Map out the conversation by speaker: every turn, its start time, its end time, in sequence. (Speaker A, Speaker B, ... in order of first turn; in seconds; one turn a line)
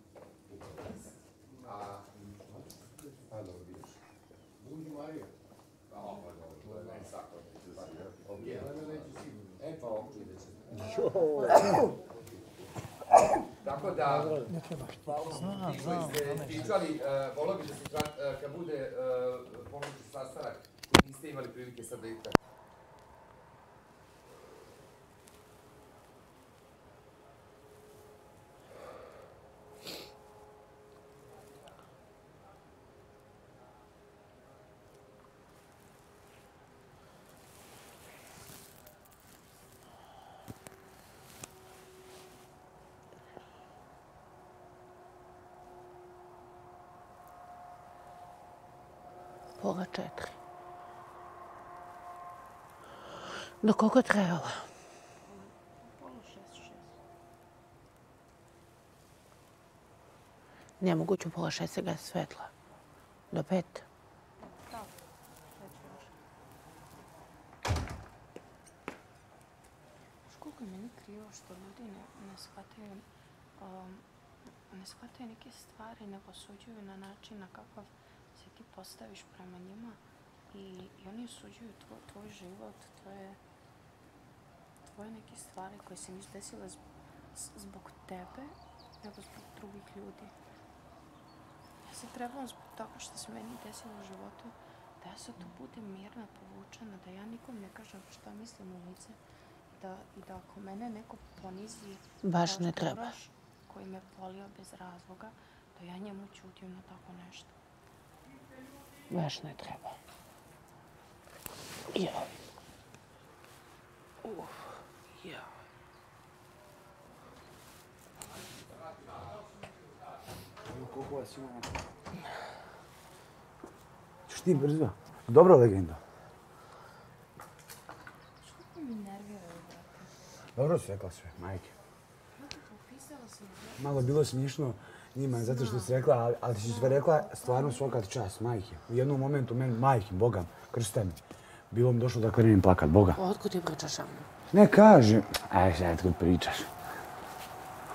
Speaker A: 0.5-2.5
Speaker A: 3.2-4.0
Speaker A: 4.6-5.3
Speaker A: 5.9-11.5
Speaker B: 8.4-8.7
Speaker A: 13.6-14.5
Speaker A: 15.1-22.4
Speaker C: 49.6-50.4
Speaker C: 53.6-54.7
Speaker B: 55.2-57.0
Speaker C: 60.8-62.5
Speaker C: 63.3-63.9
Speaker B: 64.6-65.0
Speaker B: 65.5-66.1
Speaker B: 70.3-74.0
Speaker B: 74.7-83.4
Speaker B: 84.9-86.8
Speaker B: 87.3-90.3
Speaker B: 91.8-99.2
Speaker B: 99.7-107.6
Speaker C: 102.2-103.1
Speaker C: 109.1-110.0
Speaker C: 111.9-112.3
Speaker C: 114.2-114.5
Speaker D: 120.6-121.8
Speaker D: 124.3-126.0
Speaker B: 128.4-130.1
Speaker D: 130.6-131.7
Speaker B: 132.3-134.2
Speaker D: 133.8-141.2
Speaker B: 135.3-135.9
Speaker B: 136.6-138.1
Speaker D: 141.7-143.2
Speaker C: 143.2-144.3
Speaker D: 144.5-146.7